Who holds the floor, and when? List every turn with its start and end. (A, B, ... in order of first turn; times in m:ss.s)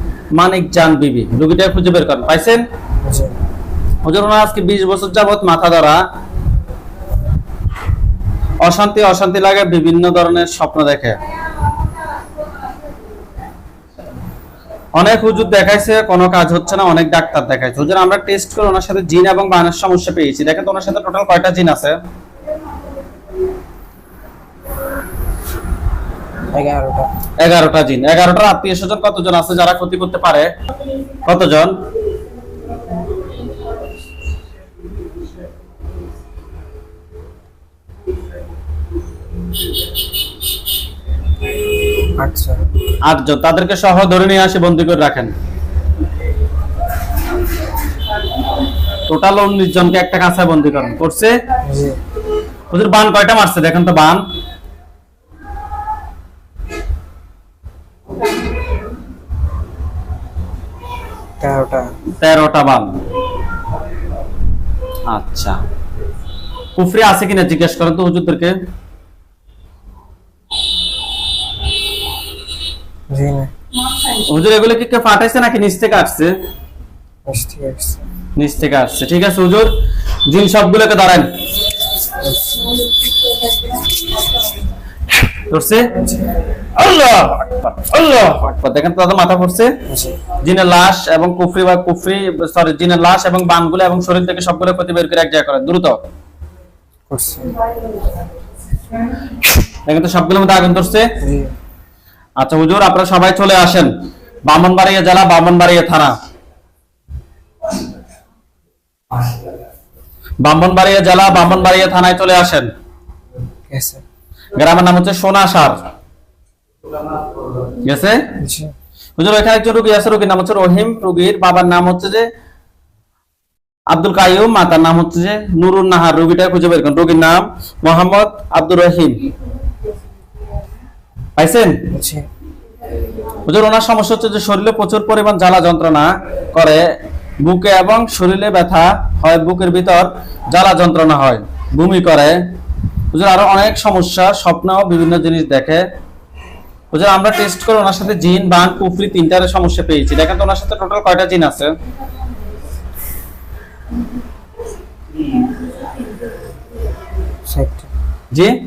0:00.3-0:02.6 A
0:03.0-0:03.3 B
0:04.0-0:06.0 A
0:08.6-0:11.2 A
0:15.0-0:22.0 A
0:26.5-0:27.1 B
0:27.4-0:30.5 A
0:31.2-0:31.8 A
0:42.2-0:42.6 B
0:43.0-0:45.3 A
0:49.1-0:51.4 A
0:51.6-0:52.0 B
0:52.7-0:54.2 A
1:01.4-1:01.9 B
1:02.2-1:03.0 A
1:05.1-1:05.6 A
1:06.8-1:08.6 A
1:13.1-1:13.5 B
1:14.2-1:16.3 A
1:17.3-1:18.0 B
1:18.4-1:19.7 A
1:20.3-1:21.3 A
1:22.2-1:22.7 B
1:25.5-1:26.0 A
1:26.8-1:29.7 A
1:29.9-1:30.2 B
1:30.4-1:36.0 A
1:37.1-1:37.5 B
1:39.8-1:41.1 A
1:41.2-1:41.5 B
1:42.4-1:43.9 A
1:44.4-1:46.2 A
1:50.4-1:52.7 A
1:53.7-1:54.0 B
1:54.6-1:55.8 A
1:57.8-1:58.2 A
1:58.4-1:58.7 B
1:59.2-2:02.3 A
2:03.9-2:09.2 A
2:11.4-2:11.9 A
2:11.9-2:12.3 B
2:13.5-2:22.4 A
2:23.1-2:25.8 A
2:26.9-2:31.7 A
2:37.5-2:37.9 B